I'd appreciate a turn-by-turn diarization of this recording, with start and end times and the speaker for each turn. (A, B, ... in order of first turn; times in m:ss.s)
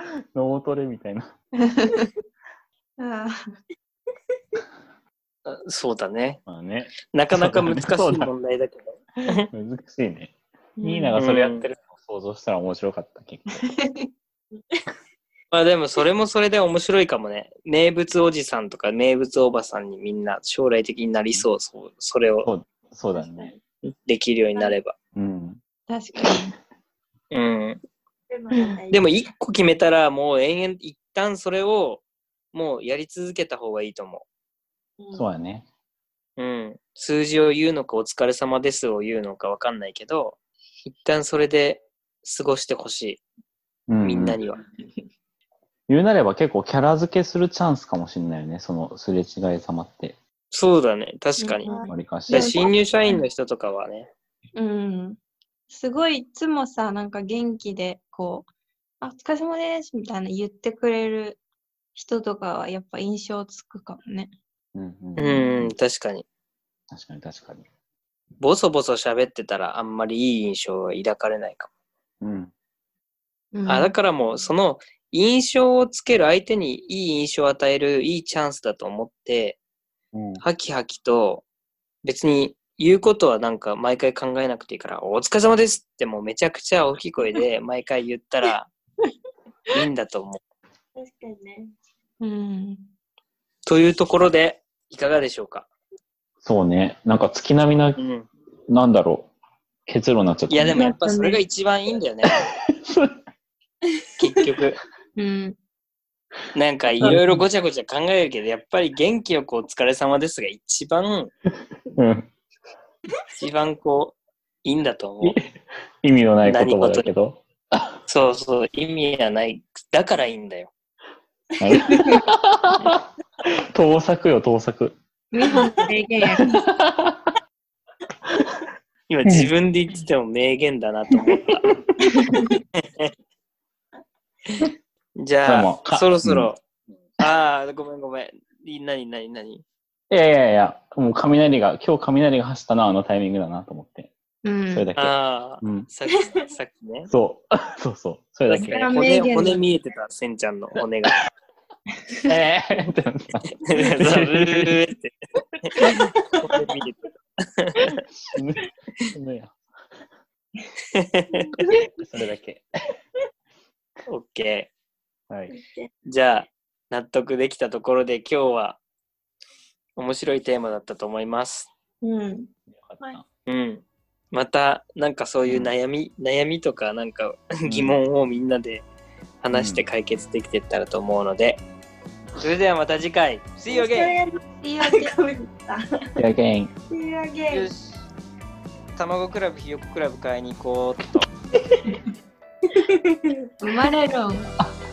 0:00.3-0:01.3 A
0:01.6-0:02.1 B
0:03.0-0:03.4 B
0:05.4-0:06.4 C
0:06.5-0:08.3 A
0:07.1-0:09.5 C
0:09.5-0:13.6 A
0:10.8-0:11.2 B
0:11.2-0:11.6 C
0:13.5-0:14.0 B
0:14.5-0:14.8 D
0:15.5-0:22.5 C
0:22.4-0:23.5 A
0:23.2-0:23.6 D
0:23.8-0:24.9 C
0:25.2-0:25.6 A
0:25.9-0:26.6 B
0:27.3-0:27.8 C
0:28.3-0:29.1 D
0:28.9-0:34.2 C
0:35.0-0:35.3 D
0:35.1-0:35.7 A
0:36.4-0:43.2 C
0:43.9-0:44.4 A
0:44.0-0:44.6 C
0:45.9-0:50.2 A
0:50.5-0:51.7 C
0:51.4-0:52.7 B
0:51.7-0:51.9 D
0:51.9-0:52.6 A
0:52.3-0:54.1 C
0:54.6-0:55.2 B
0:55.7-0:58.5 B
0:59.0-1:01.4 B
1:02.0-1:04.3 B
1:04.8-1:05.7 A
1:05.2-1:06.2 C
1:06.9-1:07.7 A
1:08.4-1:11.7 C
1:12.2-1:12.5 A
1:13.5-1:13.9 B
1:13.7-1:19.6 C
1:20.1-1:20.4 A
1:20.4-1:21.4 C
1:22.0-1:28.7 C
1:29.7-1:30.4 C
1:31.0-1:31.7 D
1:32.2-1:32.9 B
1:33.7-1:35.7 C
1:36.4-1:38.0 A
1:38.0-1:38.3 C
1:38.7-1:39.3 A
1:39.9-1:41.0 A
1:40.5-1:42.4 C
1:40.6-1:41.4 B
1:42.7-1:43.2 A
1:44.2-1:44.8 C
1:45.2-1:45.6 B
1:46.5-1:51.3 C
1:47.0-1:47.4 A
1:51.9-1:52.3 A
1:53.3-1:55.4 C
1:56.0-1:58.0 A
1:56.4-1:57.1 C
1:58.1-2:00.7 C
2:01.6-2:05.0 A
2:01.9-2:02.2 B
2:05.3-2:06.6 B
2:05.5-2:05.8 D
2:06.4-2:07.3 A
2:09.1-2:11.6 C
2:12.2-2:12.5 B
2:12.8-2:13.1 C
2:15.2-2:16.6 C
2:15.4-2:16.5 A
2:17.2-2:19.6 C
2:20.1-2:24.1 A
2:24.4-2:24.9 B
2:24.7-2:25.9 A
2:25.0-2:27.1 C
2:26.1-2:26.5 D
2:27.1-2:28.8 A
2:28.5-2:31.2 C
2:28.7-2:29.6 B
2:32.3-2:34.8 A
2:33.6-2:35.1 C
2:35.6-2:38.0 C
2:38.1-2:39.6 A
2:40.9-2:41.5 C
2:41.4-2:41.9 D
2:42.0-2:42.6 A
2:44.1-2:44.7 C
2:45.3-2:45.6 A
2:45.5-2:45.9 D
2:46.1-2:48.8 C
2:50.0-2:51.7 C
2:52.0-2:52.5 B
2:52.7-2:53.3 A
2:53.5-2:58.9 C
2:55.5-2:55.7 A
2:57.6-2:58.0 A
2:59.4-3:01.6 C
2:59.5-2:59.8 A
3:02.4-3:04.2 C
3:03.7-3:06.2 D
3:04.6-3:05.2 B
3:06.2-3:06.7 A
3:06.9-3:07.7 D
3:07.5-3:08.0 C
3:09.0-3:11.3 C
3:12.7-3:13.5 D
3:13.6-3:14.5 B